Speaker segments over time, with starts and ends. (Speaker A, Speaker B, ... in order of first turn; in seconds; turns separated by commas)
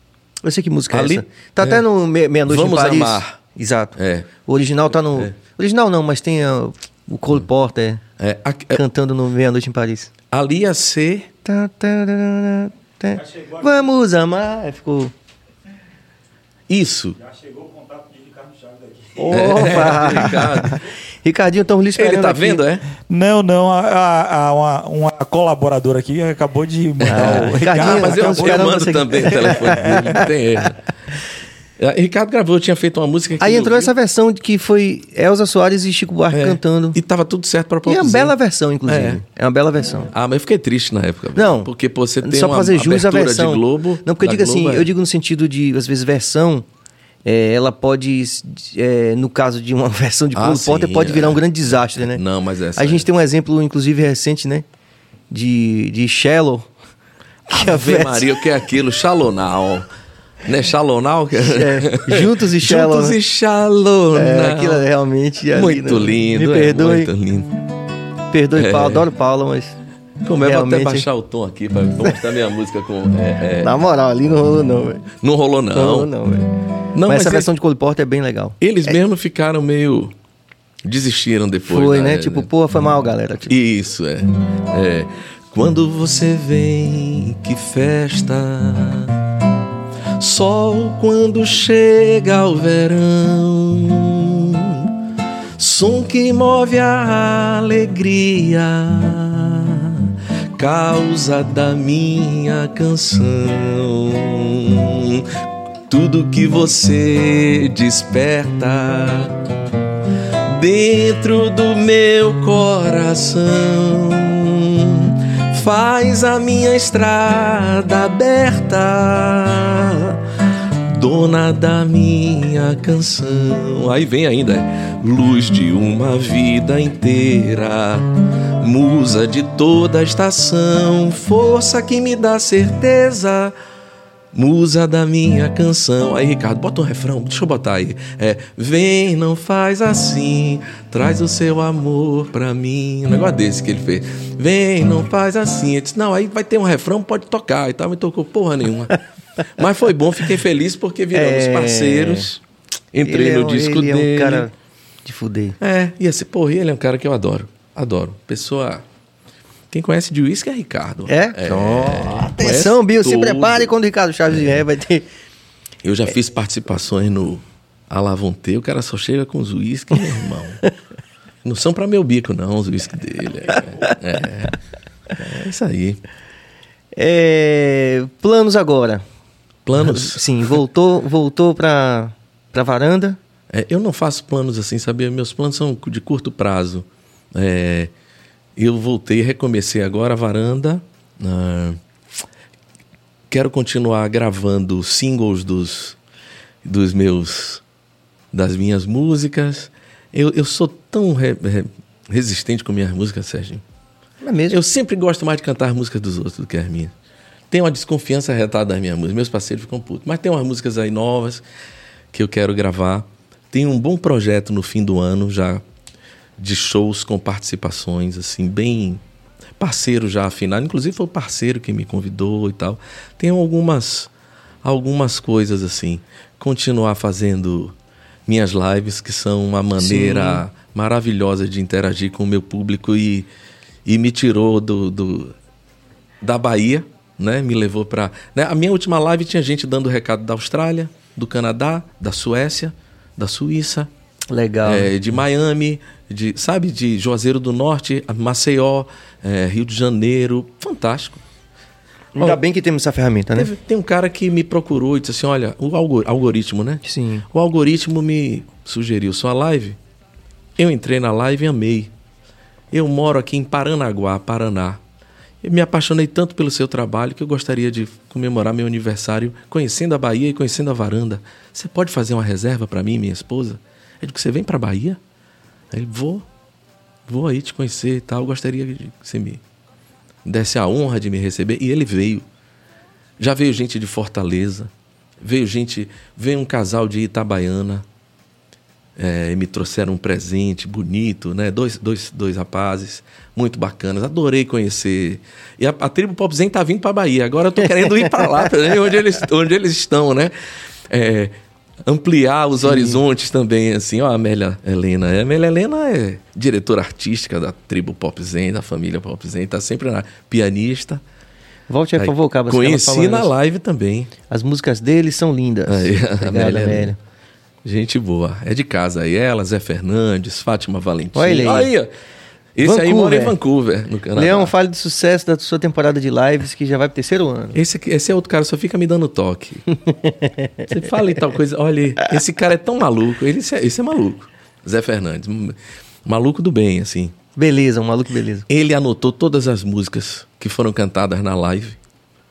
Speaker A: 0.4-8.0, Speaker B: 0.9-1.8, Speaker B: 2.5-3.4, Speaker B: 4.0-4.3, Speaker B: 8.2-8.8, Speaker A: 8.7-10.1, Speaker B: 10.3-11.3, Speaker A: 11.4-15.1, Speaker B: 16.7-17.2, Speaker C: 17.4-19.4, Speaker A: 19.2-22.6, Speaker B: 19.3-20.8, Speaker B: 21.9-22.9, Speaker C: 23.0-28.8, Speaker B: 27.0-30.8, Speaker A: 27.1-30.7, Speaker B: 31.8-33.9, Speaker A: 33.4-37.0, Speaker B: 36.3-38.4, Speaker A: 37.9-40.1, Speaker B: 38.9-39.2, Speaker B: 40.1-44.9, Speaker A: 41.4-41.7, Speaker A: 42.2-46.7, Speaker A: 47.2-52.2, Speaker B: 50.3-53.1, Speaker A: 52.8-54.6, Speaker A: 55.3-56.7, Speaker B: 57.5-59.9, Speaker A: 57.5-58.3, Speaker B: 60.5-64.9, Speaker A: 61.3-63.2, Speaker A: 64.1-67.1, Speaker B: 65.5-67.5, Speaker A: 68.3-69.8, Speaker B: 68.5-69.1, Speaker B: 70.2-73.8, Speaker A: 70.4-71.1, Speaker A: 73.6-75.1, Speaker B: 75.1-76.1, Speaker A: 75.7-76.5, Speaker B: 76.9-77.5, Speaker A: 77.1-79.0, Speaker B: 78.6-80.2, Speaker B: 80.8-82.5, Speaker A: 81.7-83.5, Speaker B: 83.5-89.2, Speaker B: 90.2-95.0, Speaker B: 95.6-109.4, Speaker B: 110.4-120.2, Speaker B: 120.9-133.6, Speaker B: 134.3-149.0, Speaker B: 149.5-152.4, Speaker A: 151.1-152.3, Speaker B: 152.9-154.5, Speaker A: 153.0-154.5, Speaker A: 155.1-155.6, Speaker B: 155.6-158.8, Speaker B: 159.7-163.7, Speaker A: 161.1-165.1, Speaker B: 164.3-164.6, Speaker B: 165.8-170.6, Speaker B: 171.4-174.6, Speaker B: 175.2-176.0, Speaker A: 177.0-179.0, Speaker B: 179.7-180.3, Speaker A: 179.8-183.2, Speaker B: 183.5-187.9, Speaker B: 188.6-191.8, Speaker B: 193.3-196.0, Speaker B: 196.6-197.6, Speaker B: 198.3-203.6, Speaker A: 204.2-204.6, Speaker B: 204.5-206.9, Speaker B: 207.5-211.4, Speaker B: 212.1-215.6, Speaker B: 216.4-219.0, Speaker B: 219.6-224.1, Speaker B: 224.6-227.8, Speaker B: 228.3-233.3, Speaker A: 229.8-230.4, Speaker B: 233.8-235.3, Speaker B: 236.2-243.9, Speaker A: 244.3-244.9, Speaker B: 244.7-251.2, Speaker A: 252.2-253.5, Speaker B: 253.3-259.8, Speaker A: 256.8-257.3, Speaker B: 260.6-261.9, Speaker B: 262.7-264.8, Speaker B: 265.4-275.0, Speaker B: 275.7-276.3, Speaker B: 277.1-279.4, Speaker B: 280.2-282.3, Speaker B: 283.2-287.9, Speaker B: 289.0-300.3, Speaker A: 297.9-298.5, Speaker B: 300.9-311.0, Speaker A: 302.6-303.0, Speaker A: 311.7-313.3, Speaker B: 312.0-314.1, Speaker A: 314.3-317.0, Speaker B: 315.7-316.9, Speaker B: 317.6-321.9, Speaker A: 321.1-321.7, Speaker B: 322.6-324.5, Speaker A: 322.6-323.4, Speaker A: 324.1-327.6, Speaker B: 327.6-329.6, Speaker A: 329.9-330.6, Speaker B: 330.6-337.1, Speaker A: 337.4-338.5, Speaker B: 338.5-341.8